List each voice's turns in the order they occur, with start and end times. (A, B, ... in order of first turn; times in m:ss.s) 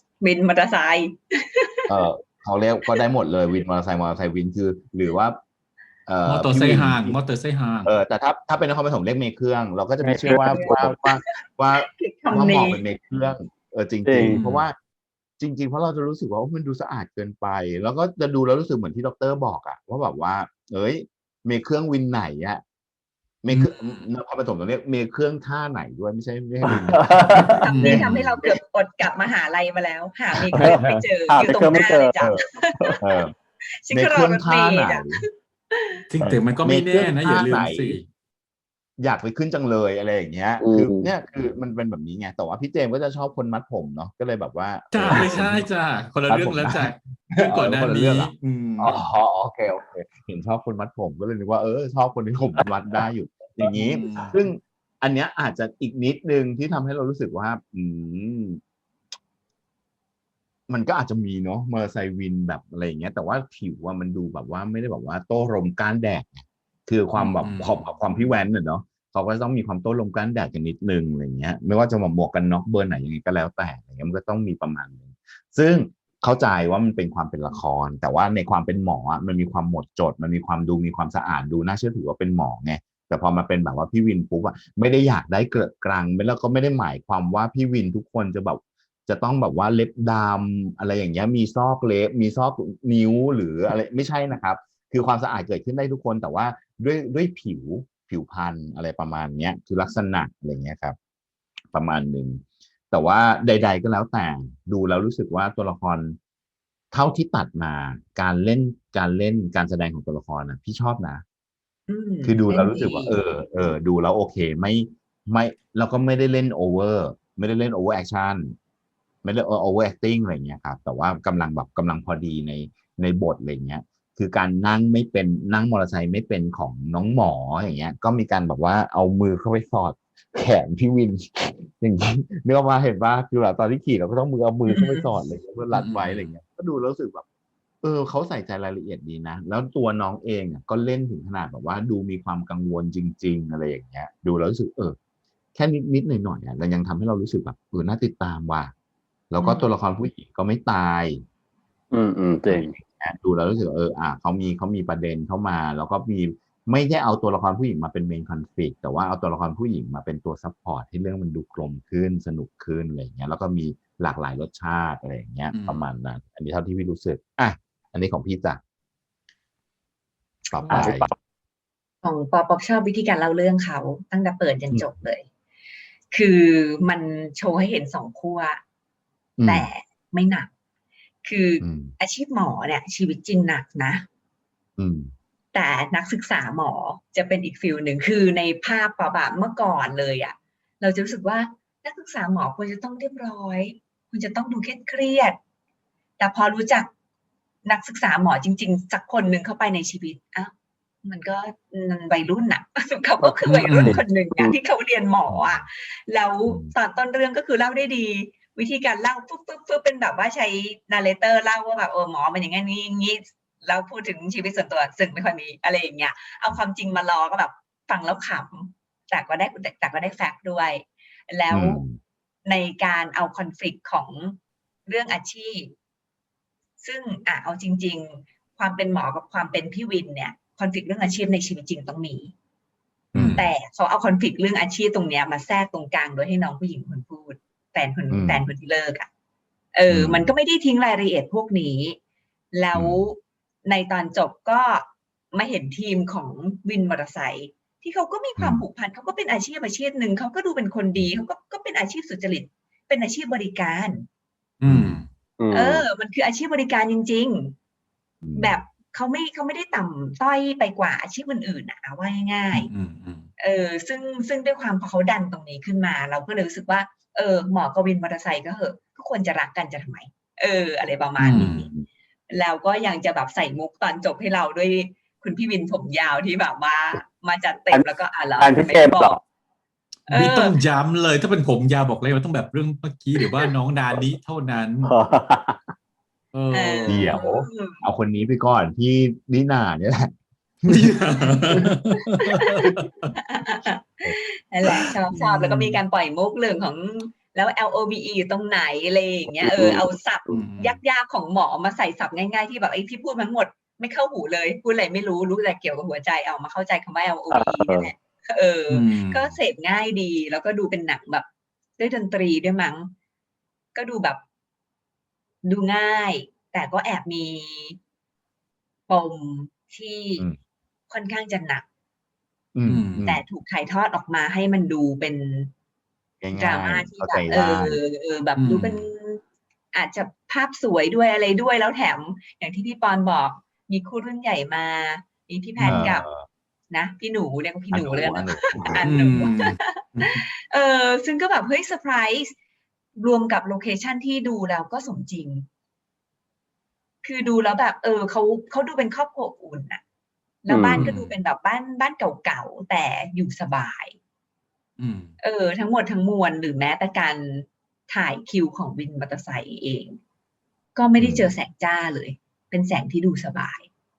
0:00.2-0:01.9 A
0:01.9-0:05.4 B
0:06.1-0:07.2 B
0:06.3-0:07.9 C
0:07.8-0:14.8 B
0:10.0-0:11.0 D
0:10.3-0:12.8 A
0:14.0-0:14.4 D
0:14.3-0:14.6 C
0:15.4-0:22.6 B
0:23.4-0:28.3 B
0:23.5-0:24.1 C
0:26.7-0:27.5 D
0:27.5-0:33.2 A
0:27.7-0:28.2 C
0:30.4-0:31.0 B
0:31.3-0:32.2 D
0:32.2-0:32.4 B
0:33.0-0:33.3 B
0:33.8-0:36.0 A
0:33.9-0:35.2 B
0:36.1-0:38.1 C
0:36.2-0:38.0 B
0:39.0-0:45.7 B
0:40.6-0:41.1 D
0:44.9-0:49.0 C
0:46.3-0:58.6 B
0:54.0-0:54.3 C
1:00.7-1:41.0 B
1:07.2-1:08.0 C
1:41.7-1:46.2 B
1:46.9-1:51.2 B
1:51.9-1:53.2 A
1:52.2-1:58.6 B
1:59.2-2:17.2 B
2:14.7-2:15.1 A
2:15.7-2:16.3 C
2:17.8-2:25.0 B
2:25.6-2:28.7 B
2:29.3-2:31.2 B
2:29.4-2:29.7 A
2:31.9-2:32.7 D
2:32.5-2:48.6 B
2:45.5-2:45.9 C
2:50.5-2:51.1 B
2:50.7-2:51.1 D
2:52.0-2:55.3 A
2:56.1-2:58.6 A
2:59.4-2:59.7 B
2:59.4-3:00.5 A
3:01.2-3:04.1 A
3:01.6-3:01.9 B
3:04.8-3:05.1 B
3:05.5-3:15.4 A
3:16.2-3:16.9 A
3:17.6-3:20.5 A
3:21.0-3:41.8 A
3:23.4-3:24.0 C
3:25.3-3:25.7 B
3:26.4-3:26.7 B
3:41.5-3:42.0 B
3:42.5-3:45.8 A
3:46.8-3:52.3 A
3:53.1-3:53.4 B
3:53.1-3:53.5 C
3:53.3-3:59.1 A
3:58.1-3:58.4 B
3:59.7-4:02.0 A
3:59.9-4:00.3 B
4:02.5-4:14.1 A
4:02.7-4:03.0 B
4:08.4-4:08.7 B
4:14.6-4:15.1 C
4:14.6-4:15.0 B
4:15.4-4:15.8 D
4:15.5-4:17.6 A
4:18.2-4:18.6 B
4:18.4-4:22.7 A
4:22.5-4:23.3 C
4:23.4-4:31.6 A
4:31.2-4:31.7 C
4:31.3-4:31.9 B
4:32.3-4:39.2 A
4:38.4-4:39.2 D
4:40.1-4:40.6 A
4:40.1-4:44.9 C
4:44.8-4:45.6 D
4:46.3-4:47.1 C
4:46.5-4:47.8 A
4:46.9-4:50.1 B
4:50.7-4:53.1 C
4:51.3-4:51.6 A
4:52.2-5:11.3 A
4:54.7-4:55.8 C
4:59.4-4:59.8 D
5:00.3-5:00.8 C
5:07.3-5:07.9 D
5:08.7-5:09.4 C
5:11.8-5:12.9 A
5:13.8-5:14.2 A
5:15.4-5:17.8 A
5:18.9-5:20.2 A
5:20.9-5:21.7 A
5:22.6-5:23.2 B
5:22.7-5:23.1 C
5:23.1-5:25.5 A
5:26.2-5:27.8 B
5:26.4-5:29.2 A
5:28.4-5:28.9 C
5:29.7-5:36.1 A
5:35.6-5:35.9 C
5:35.6-5:36.3 B
5:36.7-5:42.4 A
5:37.7-5:38.9 B
5:38.8-5:40.2 C
5:43.0-5:45.5 A
5:47.0-5:49.8 A
5:50.4-5:54.0 A
5:50.5-5:50.8 D
5:50.7-5:51.2 C
5:54.8-5:55.1 C
5:55.2-6:00.0 A
6:00.8-6:03.7 A
6:01.0-6:01.3 B